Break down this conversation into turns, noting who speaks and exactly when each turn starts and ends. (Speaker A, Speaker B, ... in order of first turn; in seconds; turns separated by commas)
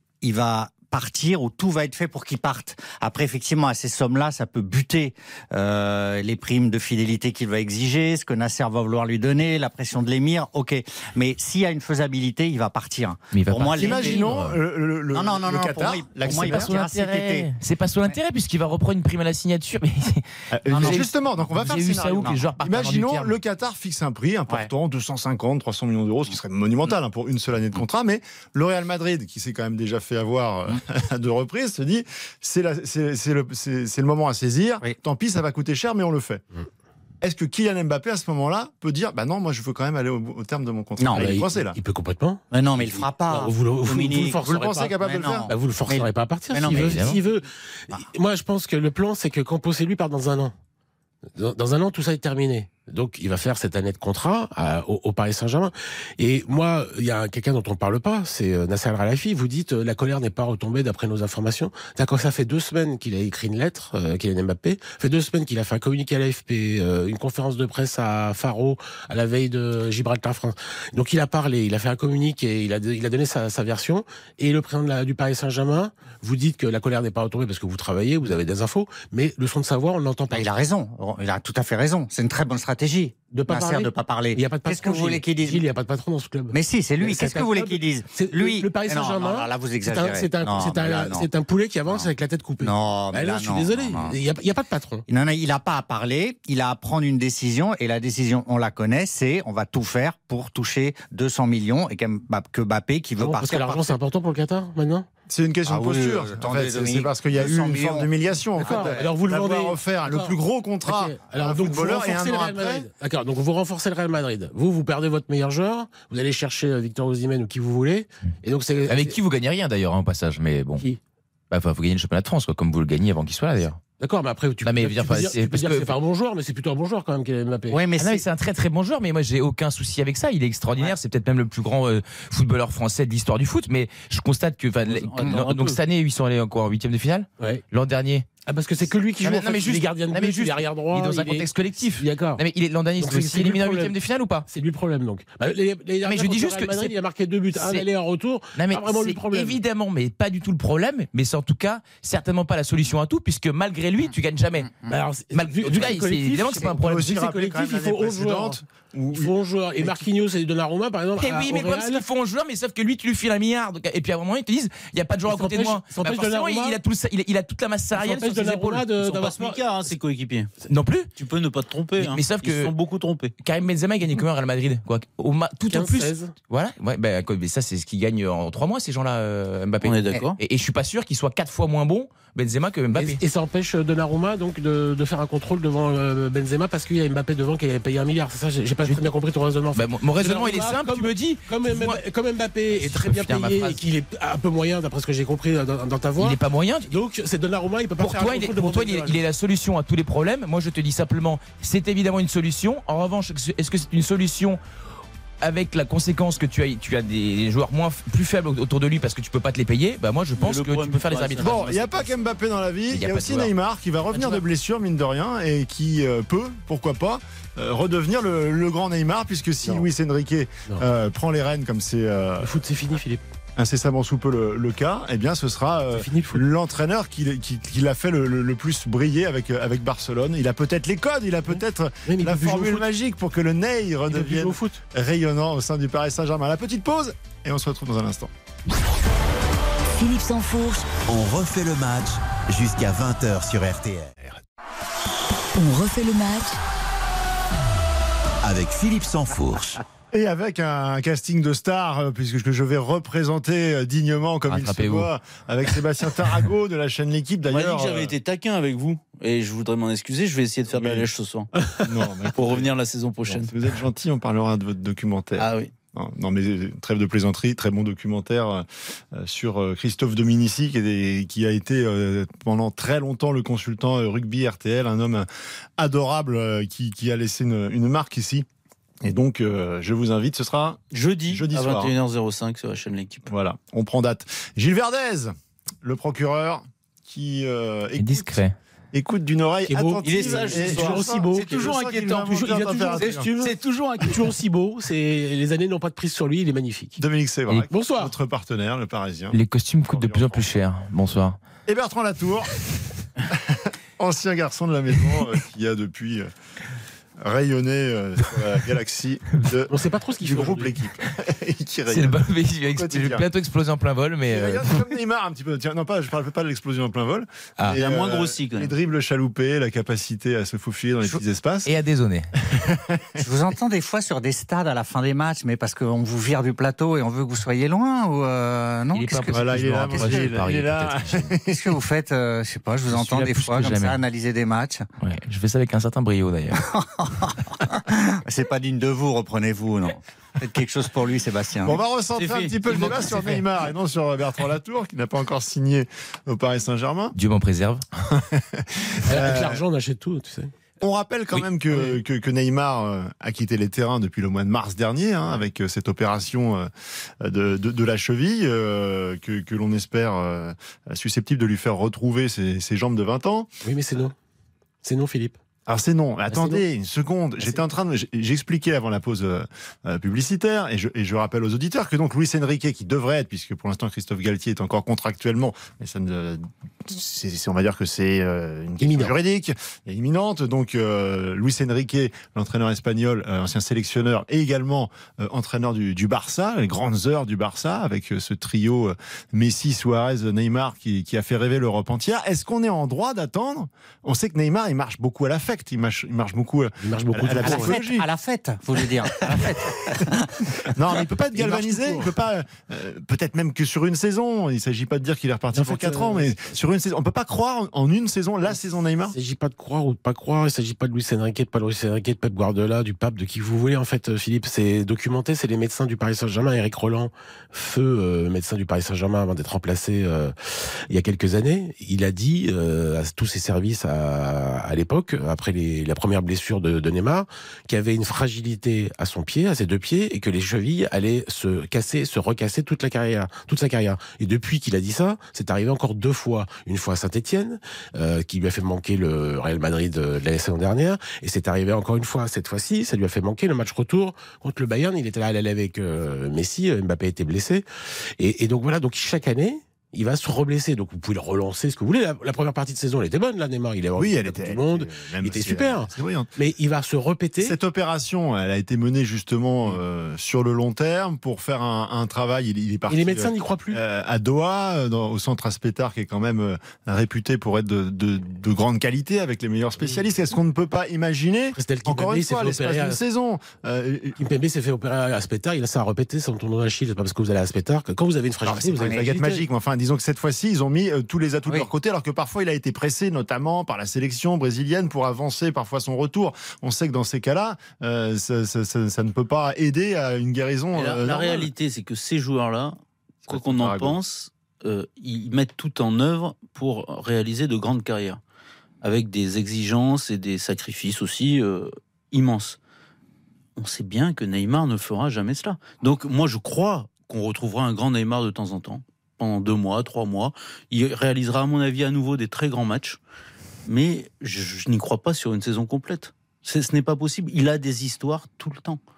Speaker A: 0.2-14.3, Speaker B: 13.3-14.6, Speaker C: 13.8-16.7, Speaker A: 15.1-17.5, Speaker B: 16.2-23.4, Speaker C: 20.5-36.4, Speaker A: 20.7-21.1, Speaker C: 37.2-41.8, Speaker A: 41.0-41.3, Speaker D: 41.2-44.9, Speaker A: 42.5-47.2, Speaker C: 44.4-45.5, Speaker D: 45.5-50.5, Speaker B: 46.7-47.2, Speaker D: 51.3-80.5, Speaker A: 80.3-85.7, Speaker D: 83.3-95.0, Speaker A: 86.5-91.3, Speaker A: 92.6-94.2, Speaker A: 95.1-104.0, Speaker D: 103.2-105.1, Speaker C: 105.3-112.9, Speaker A: 105.7-109.1, Speaker D: 108.6-119.2, Speaker B: 118.9-120.8, Speaker B: 121.5-123.8, Speaker D: 124.0-127.8, Speaker B: 124.6-126.0, Speaker A: 127.7-128.2, Speaker B: 128.0-138.3, Speaker E: 134.8-135.8, Speaker D: 138.5-142.4, Speaker B: 139.2-144.5, Speaker D: 143.0-143.9, Speaker D: 144.5-149.6, Speaker B: 146.0-146.9, Speaker B: 147.5-147.9, Speaker B: 148.6-157.1, Speaker D: 154.9-158.6, Speaker C: 156.7-160.1, Speaker D: 159.1-162.1, Speaker B: 161.2-168.9, Speaker D: 165.3-166.8, Speaker D: 167.9-169.6, Speaker E: 169.0-170.5, Speaker B: 170.7-171.1, Speaker E: 171.2-173.3, Speaker B: 172.0-172.7, Speaker B: 173.4-183.2, Speaker D: 175.7-176.3, Speaker E: 179.8-180.4, Speaker D: 182.9-199.2, Speaker B: 189.7-192.0, Speaker B: 192.7-193.8, Speaker B: 196.2-196.9, Speaker B: 198.0-204.6, Speaker B: 205.4-211.8, Speaker E: 210.4-212.2, Speaker C: 211.4-222.6, Speaker B: 212.9-213.5, Speaker D: 214.1-214.4, Speaker D: 222.4-223.2, Speaker C: 223.6-238.3, Speaker D: 225.9-226.4, Speaker D: 232.1-232.8, Speaker D: 234.1-234.8, Speaker F: 239.9-241.0, Speaker G: 241.1-244.2, Speaker F: 245.6-246.6, Speaker G: 248.4-249.8, Speaker C: 250.1-258.1, Speaker B: 254.5-255.1, Speaker E: 257.5-261.5, Speaker C: 260.7-261.1, Speaker C: 261.8-262.7, Speaker E: 262.3-263.5, Speaker C: 263.3-275.3, Speaker E: 265.4-265.7, Speaker C: 275.8-278.5, Speaker C: 279.0-281.9, Speaker E: 280.9-283.3, Speaker C: 283.3-288.4, Speaker B: 288.0-288.6, Speaker C: 288.9-293.3, Speaker D: 289.7-297.0, Speaker E: 290.0-294.3, Speaker C: 297.0-300.4, Speaker D: 297.7-298.1, Speaker B: 299.3-301.4, Speaker C: 301.7-302.7, Speaker C: 303.3-306.3, Speaker C: 307.2-313.2, Speaker D: 309.7-310.8, Speaker B: 311.9-314.8, Speaker C: 314.3-321.7, Speaker E: 317.7-318.7, Speaker B: 321.6-322.3, Speaker C: 322.5-323.2, Speaker A: 323.2-330.4, Speaker B: 328.9-331.3, Speaker C: 329.3-331.8, Speaker A: 331.5-334.9, Speaker B: 332.9-334.0, Speaker B: 335.0-336.6, Speaker A: 336.5-341.8, Speaker C: 341.6-347.2, Speaker E: 342.2-343.4, Speaker B: 347.1-347.9, Speaker C: 348.1-349.6, Speaker D: 349.1-350.5, Speaker C: 350.8-356.7, Speaker C: 357.2-363.5, Speaker D: 363.6-364.2, Speaker D: 364.8-365.4, Speaker C: 365.7-398.1, Speaker D: 366.3-366.6, Speaker D: 378.8-379.1, Speaker D: 396.8-397.8, Speaker A: 397.3-400.3, Speaker C: 400.6-409.1, Speaker D: 401.4-402.1, Speaker D: 405.5-406.4, Speaker D: 409.1-420.4, Speaker D: 420.9-447.6, Speaker D: 448.2-457.6, Speaker C: 454.0-456.3, Speaker C: 457.4-474.2, Speaker D: 462.9-463.8, Speaker D: 471.6-473.0, Speaker D: 474.2-479.4, Speaker C: 478.4-491.5, Speaker E: 490.8-498.2, Speaker C: 493.3-494.0, Speaker E: 498.8-502.6, Speaker E: 503.6-513.0, Speaker E: 513.7-518.8